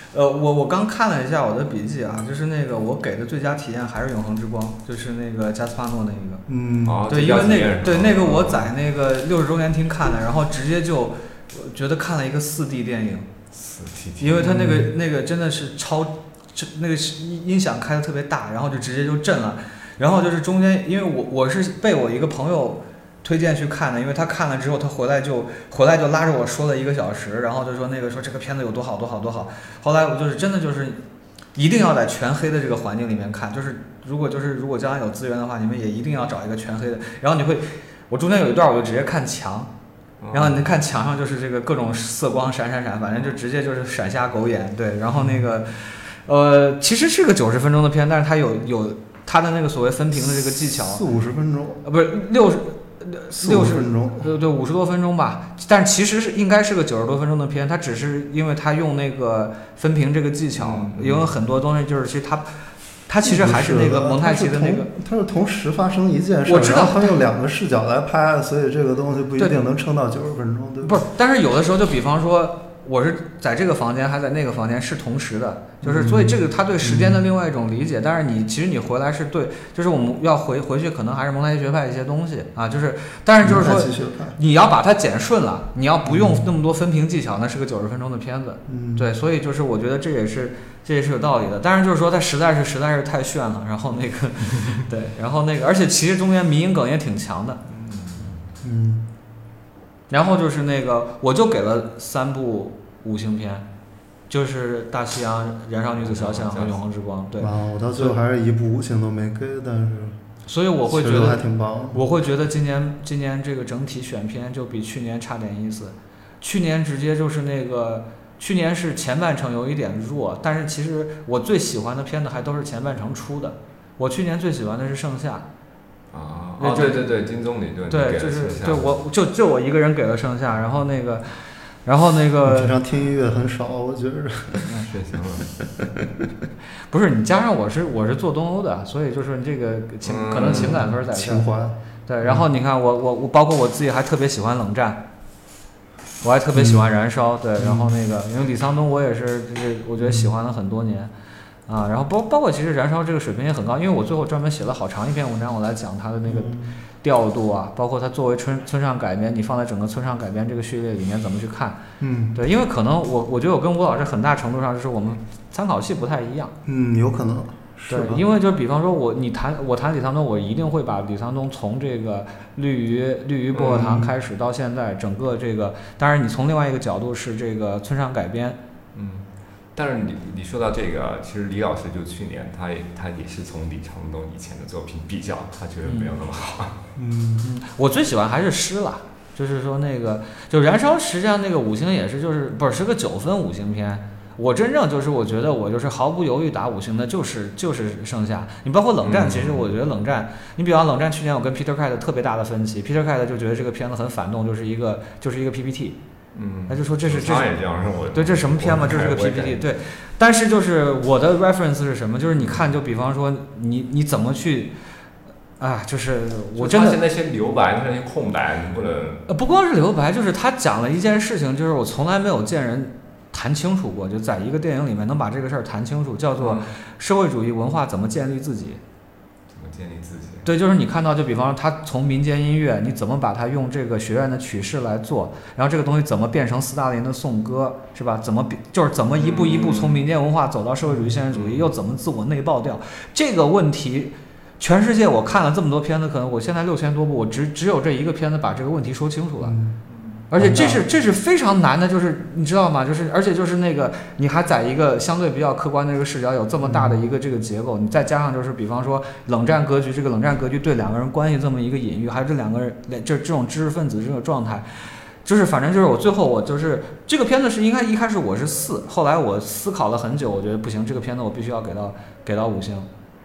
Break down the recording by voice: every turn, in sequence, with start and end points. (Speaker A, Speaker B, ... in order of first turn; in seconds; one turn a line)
Speaker A: 0.1-6.4
Speaker B: 6.5-7.0
Speaker C: 6.8-8.7
Speaker A: 7.1-13.3
Speaker C: 13.5-14.4
Speaker A: 14.2-31.0
Speaker B: 14.4-14.9
Speaker A: 31.6-39.7
Speaker C: 40.2-40.7
Speaker A: 40.3-51.0
Speaker B: 50.7-51.8
Speaker A: 51.8-64.9
Speaker B: 53.4-54.3
Speaker C: 60.5-61.3
Speaker B: 63.2-71.0
Speaker A: 66.5-67.1
Speaker A: 70.8-97.6
Speaker B: 75.8-77.2
Speaker B: 83.4-84.4
Speaker B: 86.0-86.5
Speaker B: 88.7-89.1
Speaker C: 97.7-98.4
Speaker B: 98.6-99.0
Speaker A: 100.1-103.7
Speaker A: 104.3-108.2
Speaker C: 106.0-106.8
Speaker B: 107.4-110.2
Speaker A: 110.5-125.4
Speaker B: 110.9-112.0
Speaker C: 126.1-129.0
Speaker A: 126.6-127.1
Speaker A: 127.9-132.7
Speaker B: 132.4-134.6
Speaker C: 134.9-135.5
Speaker A: 136.9-141.4
Speaker C: 140.0-140.8
Speaker B: 140.3-142.4
Speaker A: 142.1-145.0
Speaker A: 146.2-151.1
Speaker B: 146.5-146.8
Speaker B: 147.6-147.9
Speaker B: 150.0-150.3
Speaker A: 151.7-161.8
Speaker B: 156.2-156.8
Speaker B: 162.0-162.4
Speaker A: 162.3-166.5
Speaker B: 166.7-168.2
Speaker A: 167.9-178.6
Speaker B: 173.6-174.1
Speaker C: 178.9-186.8
Speaker A: 185.8-186.1
Speaker B: 186.9-187.5
Speaker A: 187.4-206.0
Speaker C: 199.0-199.8
Speaker C: 206.3-209.6
Speaker A: 206.7-207.6
Speaker A: 208.1-214.7
Speaker A: 215.6-217.0
Speaker C: 216.6-219.2
Speaker A: 219.3-228.8
Speaker C: 226.4-226.7
Speaker C: 229.5-230.5
Speaker A: 230.4-249.6
Speaker C: 239.2-240.0
Speaker B: 240.9-241.1
Speaker C: 241.3-241.7
Speaker B: 249.4-249.8
Speaker C: 249.9-250.2
Speaker A: 250.3-264.6
Speaker B: 250.3-250.8
Speaker B: 256.6-257.0
Speaker A: 265.2-272.9